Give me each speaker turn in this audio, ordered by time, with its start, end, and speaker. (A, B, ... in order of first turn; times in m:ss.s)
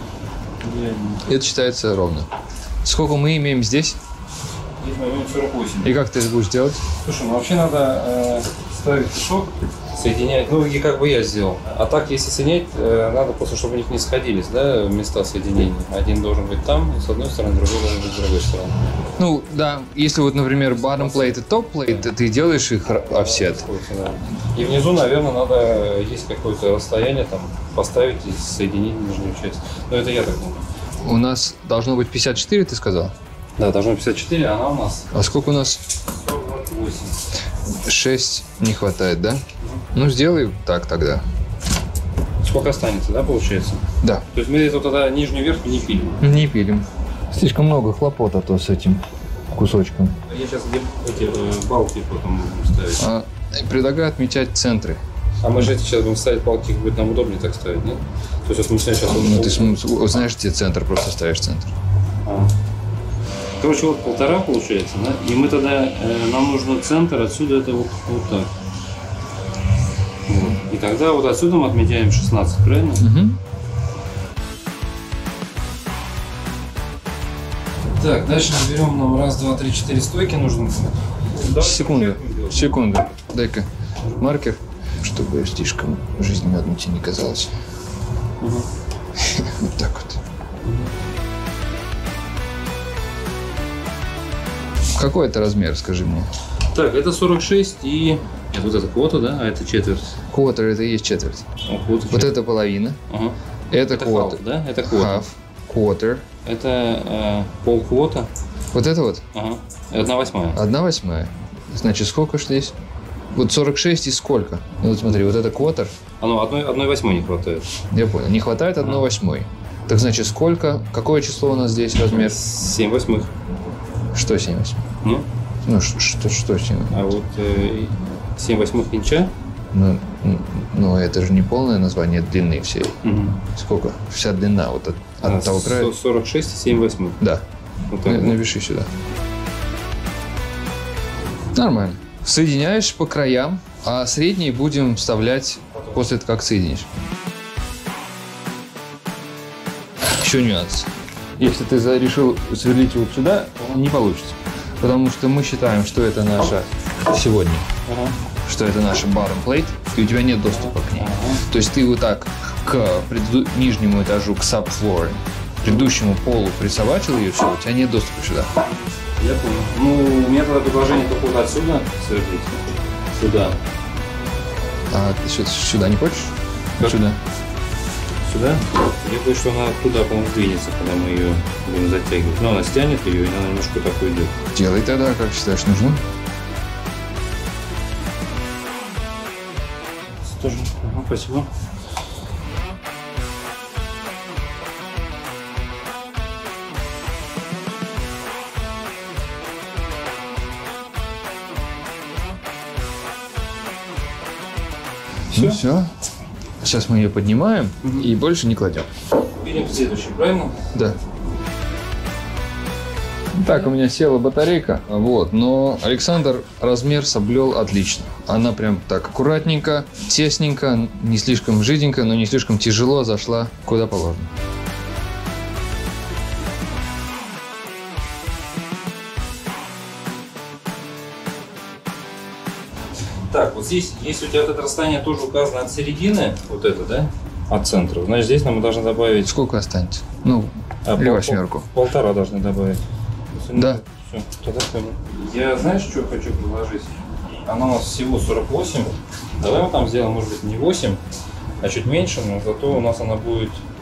0:00.6-0:01.2 A
0:01.3-0:02.3 B
0:02.8-0:04.0 B
0:04.8-0:06.0 A
0:05.8-0:06.8 B
0:07.0-0:18.8 A
0:19.2-0:23.7 B
0:20.8-0:22.1 A
0:22.9-0:30.7 A
0:31.0-0:33.2 B
0:33.6-0:35.1 A
0:35.1-0:35.8 B
0:36.1-0:37.2 A
0:37.8-0:39.4 B
0:39.9-0:41.2 B
0:42.4-0:46.2 A
0:46.2-0:50.1 B
0:50.3-0:53.0 A
0:53.0-0:55.0 B
0:55.4-0:59.8 A
0:59.1-1:01.7 B
1:02.2-1:02.5 A
1:03.6-1:08.5 A
1:10.3-1:13.1 A
1:13.0-1:13.4 B
1:18.0-1:22.8 A
1:21.6-1:27.5 B
1:28.4-1:28.7 A
1:29.2-1:30.2 B
1:35.0-1:36.3 B
1:36.7-1:40.1 A
1:40.3-1:41.5 B
1:41.6-1:42.4 A
1:42.1-1:43.0 B
1:43.1-1:43.4 A
1:43.7-1:46.2 B
1:43.9-1:45.2 A
1:46.5-1:48.3 A
1:48.7-1:49.2 B
1:49.3-1:50.6 A
1:50.6-1:52.7 B
1:53.3-1:55.9 B
1:56.2-1:57.7 A
1:57.9-2:02.4 B
2:02.1-2:03.3 A
2:04.1-2:04.8 B
2:05.7-2:07.0 B
2:06.9-2:09.3 A
2:09.7-2:13.0 B
2:13.0-2:13.4 A
2:13.6-2:15.9 B
2:15.2-2:17.2 A
2:17.9-2:18.4 A
2:18.0-2:18.9 B
2:21.5-2:26.9 B
2:30.2-2:37.7 B
2:37.9-2:38.2 A
2:38.5-2:48.5 B
2:40.5-2:41.4 A
2:49.2-2:52.6 A
2:53.2-2:53.6 A
2:54.9-2:57.2 B
2:58.2-3:04.3 A
3:04.5-3:06.0 B
3:10.2-3:11.5 A
3:25.3-3:25.6 A
3:25.3-3:25.9 B
3:26.6-3:28.9 B
3:27.8-3:28.1 A
3:29.4-3:30.6 A
3:33.4-3:44.3 B
3:53.3-3:59.3 A
3:59.2-4:01.7 B
4:00.9-4:02.8 A
4:03.3-4:11.0 A
4:03.6-4:03.8 B
4:11.6-4:13.6 A